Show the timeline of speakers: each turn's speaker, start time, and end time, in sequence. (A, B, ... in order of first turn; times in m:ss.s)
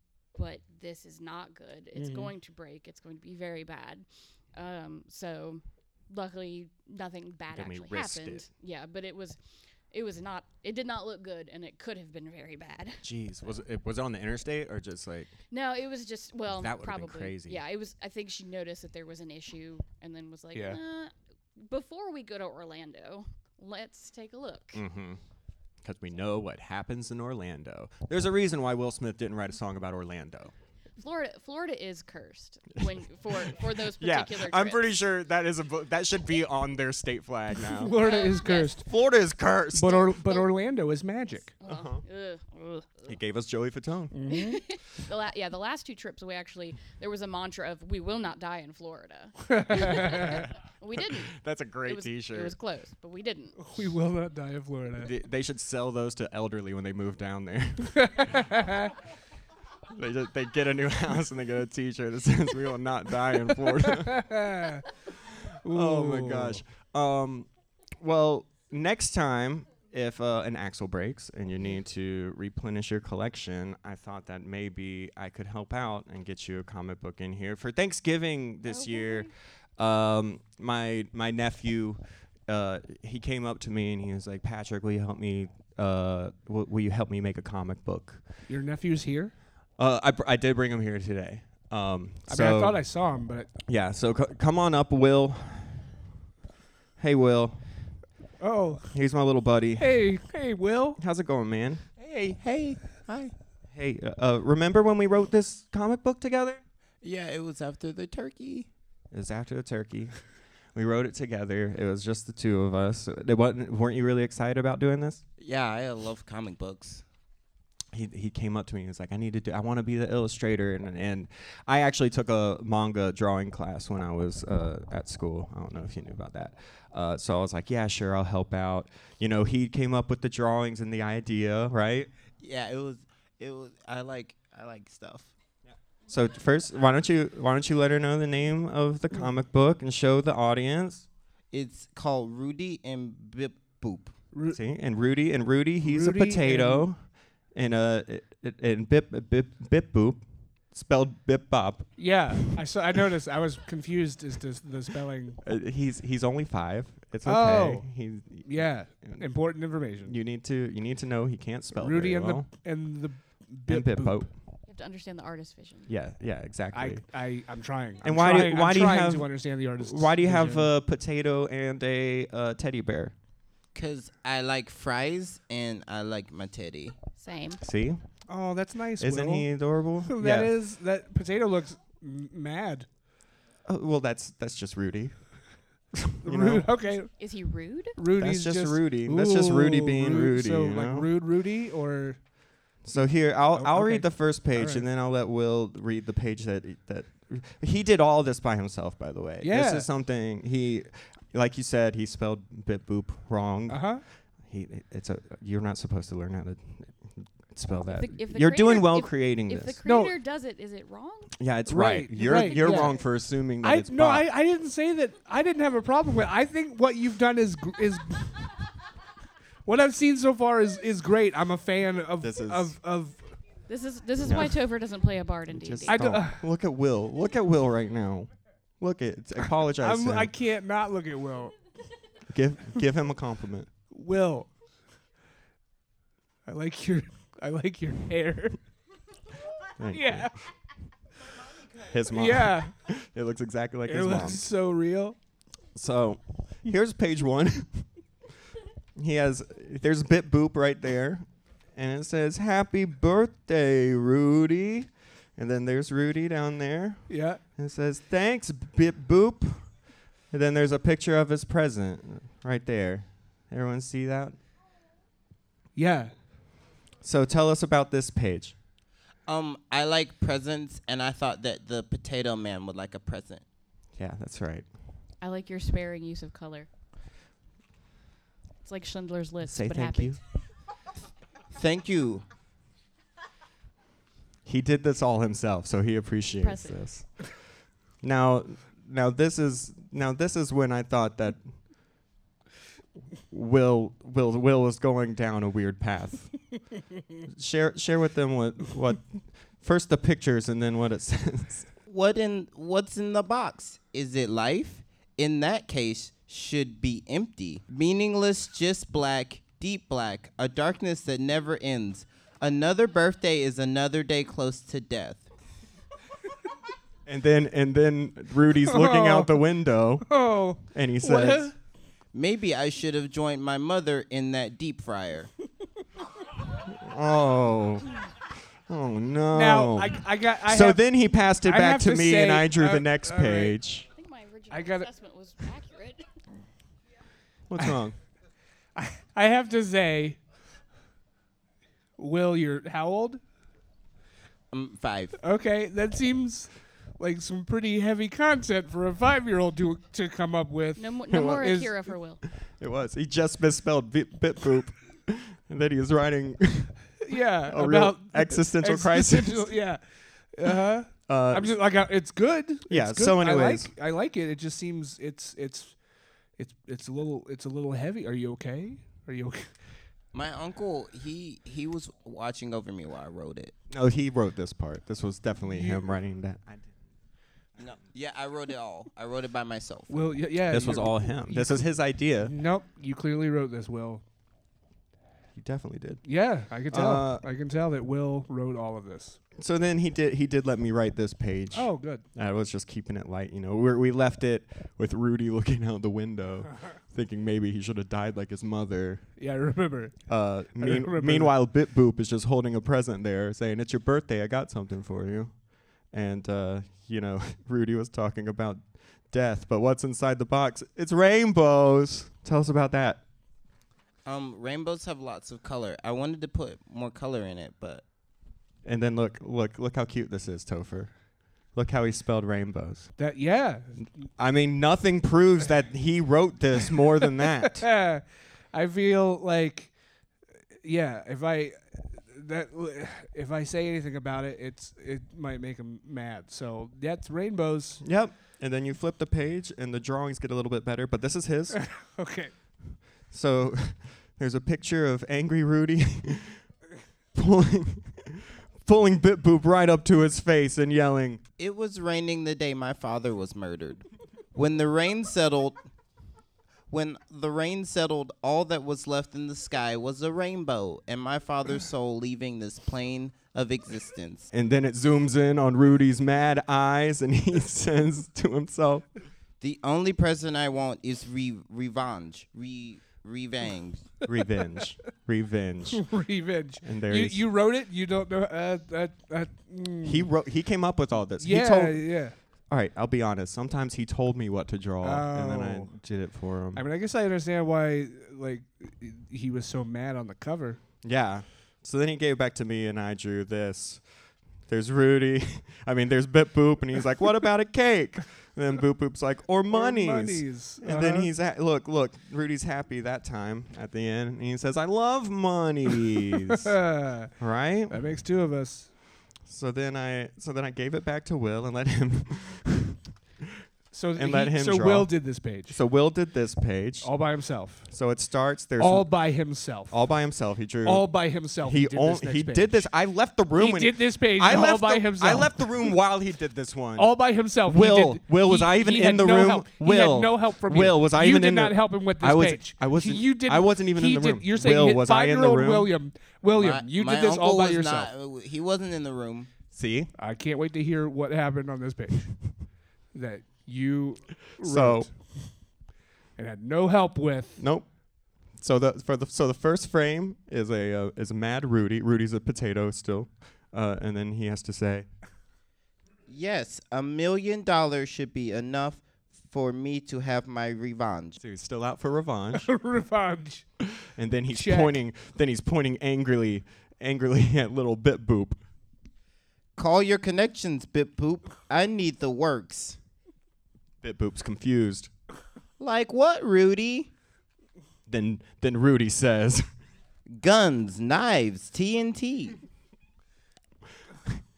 0:00.4-0:09.4 A
0:02.0-0:02.3 B
0:07.5-0:08.5 C
0:09.9-0:13.0 A
0:13.0-0:15.3 C
0:15.5-0:24.8 A
0:16.5-0:17.6 C
0:20.5-0:20.8 B
0:24.7-0:25.2 C
0:25.8-0:30.5 C
0:31.0-0:34.9 A
0:33.4-0:38.0 C
0:37.8-0:38.9 B
0:38.0-0:38.9 A
0:38.8-0:40.1 C
0:39.7-0:41.5 B
0:40.2-0:40.5 A
0:41.6-0:43.1 A
0:41.6-0:42.0 C
0:43.1-0:44.2 C
0:44.1-0:44.6 B
0:44.3-0:53.6 A
0:49.5-0:50.5 B
0:51.0-0:52.6 C
0:53.6-0:55.1 B
0:55.0-0:58.6 C
0:58.0-0:58.9 B
0:59.9-1:04.4 C
1:03.8-1:04.9 B
1:05.6-1:06.6 B
1:05.6-1:07.5 C
1:08.0-1:28.2 C
1:18.7-1:19.3 A
1:28.5-1:29.3 B
1:29.8-1:32.8 C
1:32.3-1:33.5 B
1:33.7-1:36.0 C
1:37.0-1:37.6 C
1:38.4-1:38.9 B
1:38.9-1:40.0 C
1:39.8-1:41.0 B
1:41.0-1:41.8 C
1:42.0-1:43.4 D
1:43.7-1:46.6 C
1:47.0-1:48.7 D
1:49.1-1:50.2 C
1:50.7-1:55.2 C
1:55.4-1:57.0 D
1:57.9-2:12.1 C
2:12.4-2:15.3 D
2:16.1-2:21.1 C
2:21.5-2:24.1 D
2:24.3-2:24.6 B
2:24.5-2:32.5 C
2:25.8-2:26.9 B
2:32.0-2:35.4 B
2:35.4-2:39.3 C
2:37.2-2:37.9 B
2:38.4-2:40.2 B
2:40.0-2:42.5 C
2:41.8-2:44.3 B
2:43.7-2:44.3 C
2:44.7-2:45.9 A
2:45.9-2:47.0 C
2:46.7-2:50.7 B
2:48.0-2:53.1 C
2:53.7-2:57.0 D
2:57.2-2:57.6 A
2:57.6-2:58.0 C
2:58.3-2:59.5 B
2:59.0-3:00.5 C
3:00.0-3:02.9 B
3:03.6-3:05.3 C
3:05.9-3:06.7 C
3:06.2-3:07.1 B
3:07.2-3:08.0 A
3:08.0-3:12.3 B
3:08.2-3:11.1 C
3:12.8-3:29.8 C
3:13.5-3:14.8 B
3:19.4-3:19.9 B
3:23.7-3:24.0 B
3:27.9-3:31.4 A
3:29.8-3:30.1 B
3:31.4-3:34.3 C
3:31.7-3:33.0 B
3:32.2-3:33.0 A
3:33.6-3:38.6 B
3:39.7-3:43.3 B
3:42.2-3:42.7 C
3:43.7-3:46.1 A
3:44.2-3:44.6 C
3:45.5-3:50.3 C
3:45.9-3:46.5 B
3:49.8-3:51.6 B
3:52.3-3:53.7 C
3:53.9-3:54.5 B
3:56.5-3:58.6 B
3:59.8-4:00.4 C
3:59.9-4:00.4 B
4:01.7-4:04.4 C
4:02.1-4:02.7 B
4:03.9-4:05.2 B
4:05.8-4:07.9 C
4:09.0-4:19.7 C
4:17.1-4:17.4 B
4:20.3-4:24.4 C
4:25.8-4:26.1 B
4:27.0-4:28.6 C
4:29.3-4:33.4 D
4:34.0-4:34.7 C
4:35.2-4:36.7 A
4:38.6-4:40.2 A
4:39.4-4:40.2 C
4:41.5-4:42.2 D
4:44.4-4:47.4 C
4:46.4-4:46.8 A
4:48.0-4:51.5 C
4:53.3-4:56.4 C
4:57.3-5:01.7 C
5:01.9-5:15.3 D
5:17.1-5:21.5 C
5:18.7-5:19.4 B
5:20.1-5:21.5 B
5:22.1-5:25.3 D
5:26.6-5:28.0 C
5:28.7-5:33.9 C
5:29.3-5:30.9 B
5:31.4-5:33.6 B
5:33.9-5:36.0 A
5:34.5-5:34.9 B
5:37.5-5:38.0 C
5:38.8-5:40.2 B
5:42.0-5:43.2 B
5:44.5-5:45.2 D
5:45.2-5:51.7 B
5:50.8-5:52.2 A
5:51.1-5:51.5 C
5:52.4-5:59.5 C
5:57.0-6:05.8 B
6:01.1-6:01.6 C
6:02.7-6:03.7 C
6:06.4-6:09.6 B
6:10.1-6:13.5 D
6:13.7-6:16.7 C
6:15.5-6:15.9 B
6:17.6-6:20.0 D
6:19.9-6:24.0 B
6:20.5-6:22.3 C
6:25.4-6:26.0 C
6:26.0-6:29.2 B
6:26.6-6:27.2 C
6:29.4-6:39.2 C
6:31.5-6:32.0 B
6:39.2-6:41.4 B
6:40.1-6:53.0 C
6:54.0-6:57.8 D
6:58.6-7:01.0 C
7:01.5-7:02.9 C
7:03.0-7:04.0 B
7:04.2-7:07.7 C
7:07.6-7:09.8 B
7:10.6-7:17.8 B
7:17.8-7:21.7 C
7:21.6-7:22.3 B
7:23.1-7:26.4 C
7:27.1-7:31.2 C
7:31.4-7:35.6 D
7:36.7-7:44.3 D
7:44.3-7:48.9 C
7:49.4-7:54.0 D
7:54.1-7:56.0 C
7:55.8-8:00.1 B
7:56.6-7:57.2 C
7:59.8-8:06.6 C
8:01.2-8:02.2 B
8:04.8-8:05.8 B
8:06.5-8:10.6 B
8:10.8-8:13.8 C
8:14.5-8:26.6 C
8:19.5-8:21.1 B
8:26.5-8:27.1 B
8:27.2-8:27.8 C
8:27.7-8:28.7 B
8:29.2-8:32.8 C
8:33.7-8:35.6 B
8:34.0-8:37.0 C
8:36.8-8:37.7 B
8:37.5-8:38.9 C
8:38.6-8:39.8 B
8:39.7-8:55.7 C
8:40.6-8:42.7 B
8:43.4-8:45.7 B
8:46.8-8:57.9 B
8:56.3-8:59.3 D
8:59.5-8:59.9 C
9:00.0-9:02.2 B
9:02.9-9:05.4 B
9:04.4-9:04.9 C
9:06.2-9:07.4 B
9:07.4-9:07.7 C
9:08.3-9:14.9 C
9:16.1-9:21.2 D
9:21.2-9:22.5 C
9:22.4-9:23.5 B
9:23.8-9:28.4 C
9:24.3-9:24.8 B
9:29.6-9:32.8 D
9:33.8-9:34.9 C
9:35.6-9:36.9 D
9:37.9-9:39.5 C
9:40.1-9:42.4 D